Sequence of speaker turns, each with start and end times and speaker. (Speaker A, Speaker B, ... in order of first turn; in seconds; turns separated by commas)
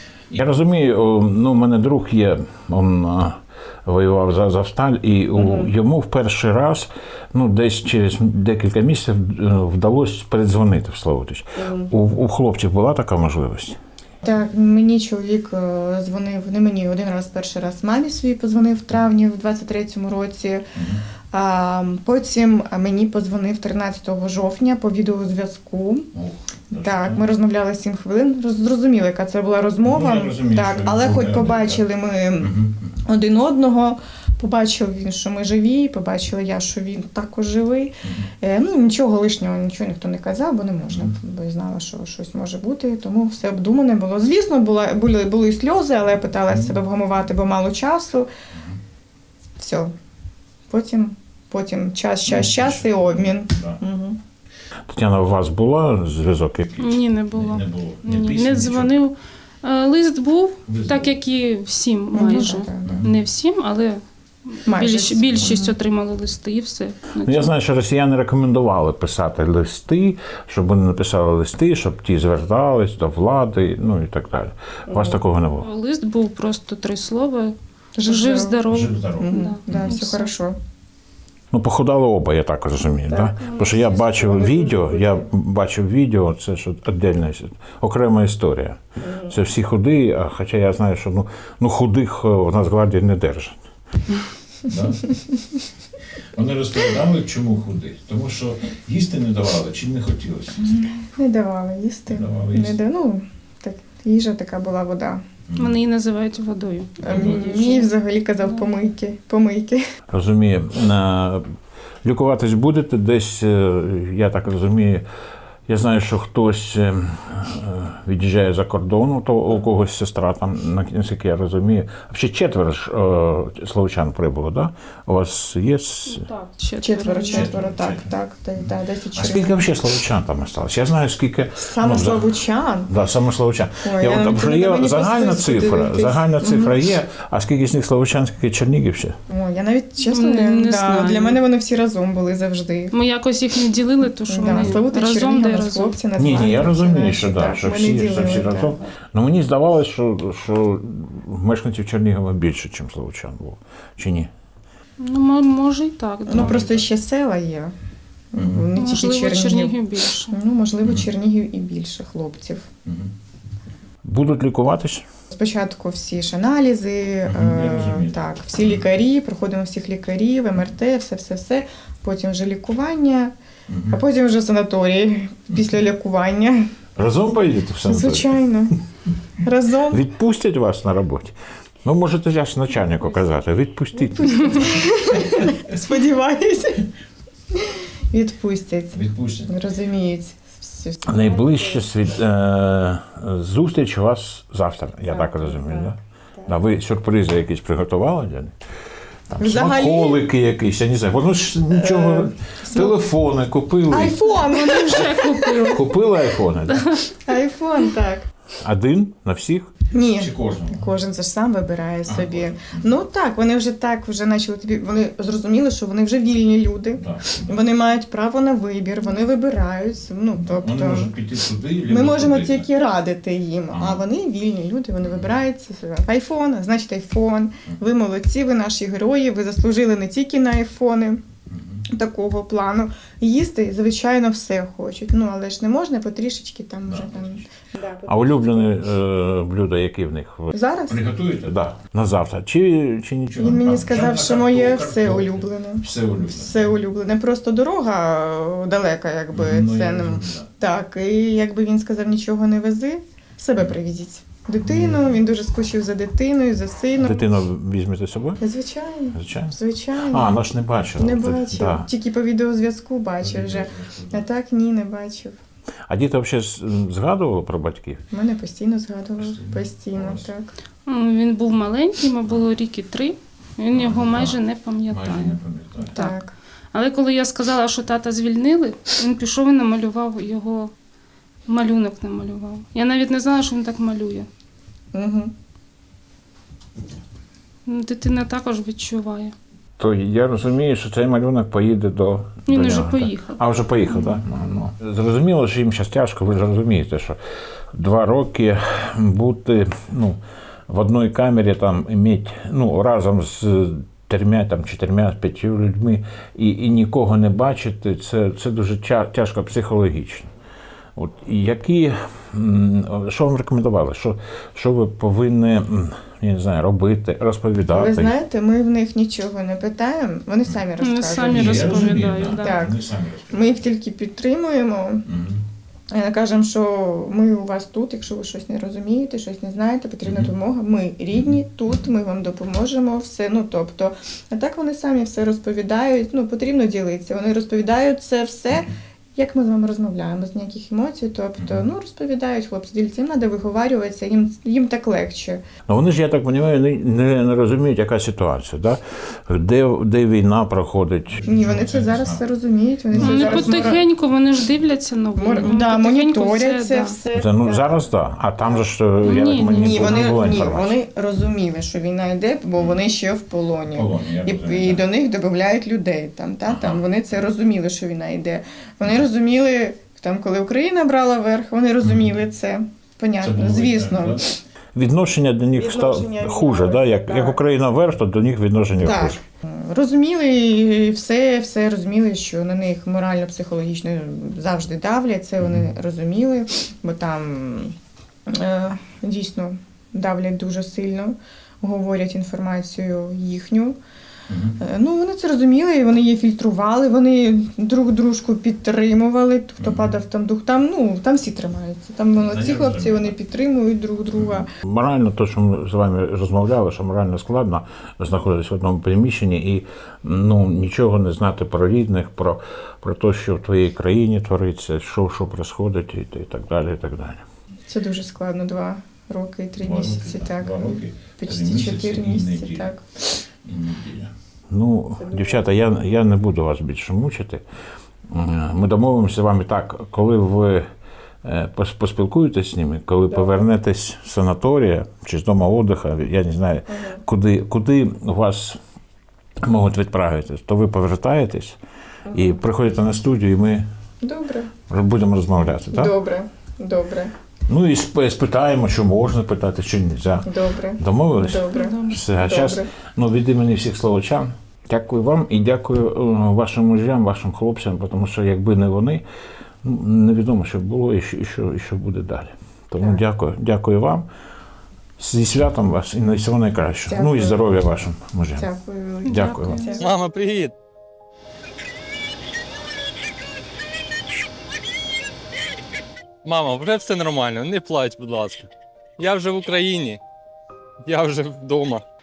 Speaker A: 0.3-13.8, Speaker B: 5.3-5.7, Speaker B: 11.6-11.9, Speaker B: 14.2-20.7, Speaker A: 20.7-21.0, Speaker B: 21.3-26.1, Speaker A: 26.1-27.2, Speaker B: 26.7-48.3, Speaker A: 29.8-31.8, Speaker A: 32.4-32.9, Speaker A: 46.5-46.8, Speaker B: 49.6-49.9, Speaker B: 50.7-54.2, Speaker A: 52.3-53.8, Speaker A: 54.9-58.9, Speaker C: 56.8-64.0, Speaker A: 60.7-61.2, Speaker B: 62.1-63.0, Speaker A: 62.8-63.1, Speaker C: 64.5-67.5, Speaker B: 64.7-65.7, Speaker A: 67.2-75.7, Speaker B: 74.9-75.2, Speaker C: 75.6-80.3, Speaker B: 78.0-78.6, Speaker A: 78.7-79.9, Speaker B: 79.2-80.6, Speaker A: 81.5-93.6, Speaker B: 83.1-85.2, Speaker C: 83.4-84.1, Speaker B: 89.0-89.4, Speaker A: 94.6-95.1, Speaker A: 96.3-100.6, Speaker B: 100.6-105.2, Speaker A: 102.1-102.8, Speaker A: 105.5-105.7, Speaker C: 105.6-108.7, Speaker B: 107.0-109.8, Speaker A: 107.0-107.5, Speaker A: 110.1-111.4, Speaker A: 112.0-115.0, Speaker A: 115.7-126.2, Speaker C: 126.1-127.5, Speaker B: 126.8-129.6, Speaker A: 127.2-128.1, Speaker A: 129.2-132.3, Speaker B: 131.6-132.9, Speaker A: 132.9-139.2, Speaker B: 133.8-136.8, Speaker B: 139.3-142.9, Speaker C: 140.1-141.4, Speaker C: 142.9-146.0, Speaker B: 144.3-148.8, Speaker A: 146.2-154.3, Speaker C: 155.0-156.7, Speaker A: 156.3-156.8, Speaker B: 156.3-157.7, Speaker B: 158.3-159.8, Speaker A: 158.4-158.7, Speaker C: 158.8-160.3, Speaker B: 160.3-162.7, Speaker A: 162.8-163.1, Speaker A: 164.0-165.0, Speaker B: 165.3-173.3, Speaker A: 167.2-168.8, Speaker A: 173.7-174.0, Speaker B: 173.9-176.7, Speaker A: 177.0-178.4, Speaker B: 177.8-178.8, Speaker B: 179.4-180.0, Speaker A: 179.9-185.7, Speaker B: 184.2-186.8, Speaker B: 187.5-191.9, Speaker A: 188.9-189.5, Speaker A: 191.1-198.5, Speaker B: 195.1-196.6, Speaker A: 199.3-204.2, Speaker B: 199.4-200.2, Speaker B: 201.7-202.9, Speaker B: 203.9-205.8, Speaker C: 204.3-205.8, Speaker A: 205.6-206.9, Speaker C: 206.7-207.1, Speaker B: 207.2-208.3, Speaker A: 208.6-210.9, Speaker B: 209.9-221.1, Speaker A: 212.1-212.9, Speaker A: 216.9-217.6, Speaker A: 220.3-222.7, Speaker B: 221.8-231.2, Speaker A: 223.7-224.0, Speaker A: 225.0-225.3, Speaker A: 231.5-231.8, Speaker B: 231.9-238.9, Speaker A: 236.8-237.4, Speaker A: 238.1-246.7, Speaker B: 240.5-241.0, Speaker B: 243.4-257.2, Speaker A: 249.3-250.5, Speaker A: 254.6-255.2, Speaker A: 256.9-258.4, Speaker B: 258.4-260.3, Speaker A: 259.1-261.9, Speaker B: 261.0-265.4, Speaker A: 263.2-264.2, Speaker A: 265.9-268.0, Speaker B: 268.1-270.5, Speaker A: 269.2-270.3, Speaker C: 270.9-275.4, Speaker A: 273.7-276.0, Speaker B: 275.8-276.3, Speaker C: 276.7-280.7, Speaker C: 281.5-284.3, Speaker B: 284.9-285.3, Speaker C: 287.6-289.3, Speaker A: 289.8-297.2, Speaker C: 292.4-293.4, Speaker A: 297.7-310.3, Speaker A: 310.9-318.1, Speaker B: 317.7-325.0, Speaker C: 320.8-322.6, Speaker A: 321.2-323.6, Speaker A: 325.1-325.4, Speaker B: 325.9-345.4, Speaker A: 330.0-330.3, Speaker A: 341.4-341.6, Speaker A: 345.7-352.2, Speaker B: 351.2-353.8, Speaker A: 352.9-353.8, Speaker C: 353.0-356.9, Speaker B: 355.1-357.9, Speaker A: 357.1-360.7, Speaker C: 359.0-360.2, Speaker B: 359.5-374.4, Speaker A: 363.7-364.8, Speaker A: 366.4-366.8, Speaker A: 371.8-372.1, Speaker A: 373.2-379.2, Speaker B: 375.5-377.4, Speaker B: 378.8-387.7, Speaker A: 385.4-385.6, Speaker B: 388.3-393.8, Speaker A: 394.3-394.6, Speaker B: 394.6-404.5, Speaker A: 399.6-399.9, Speaker A: 402.1-403.1, Speaker A: 404.1-417.2, Speaker B: 417.7-422.9, Speaker A: 419.6-427.4, Speaker B: 425.0-425.4, Speaker A: 428.1-430.7, Speaker A: 431.2-438.6, Speaker B: 433.1-433.4, Speaker B: 436.7-437.0, Speaker A: 439.4-441.6, Speaker B: 442.1-442.4, Speaker A: 442.1-443.6, Speaker B: 444.0-444.5, Speaker A: 444.7-445.9, Speaker B: 445.7-447.1, Speaker A: 447.5-459.0, Speaker B: 450.3-452.7, Speaker C: 451.5-452.0, Speaker A: 459.6-464.1, Speaker A: 465.0-468.5, Speaker B: 466.9-467.5, Speaker B: 468.4-469.9, Speaker C: 469.0-469.9, Speaker A: 469.1-469.6, Speaker D: 469.8-470.6, Speaker D: 476.2-480.0, Speaker D: 480.8-481.9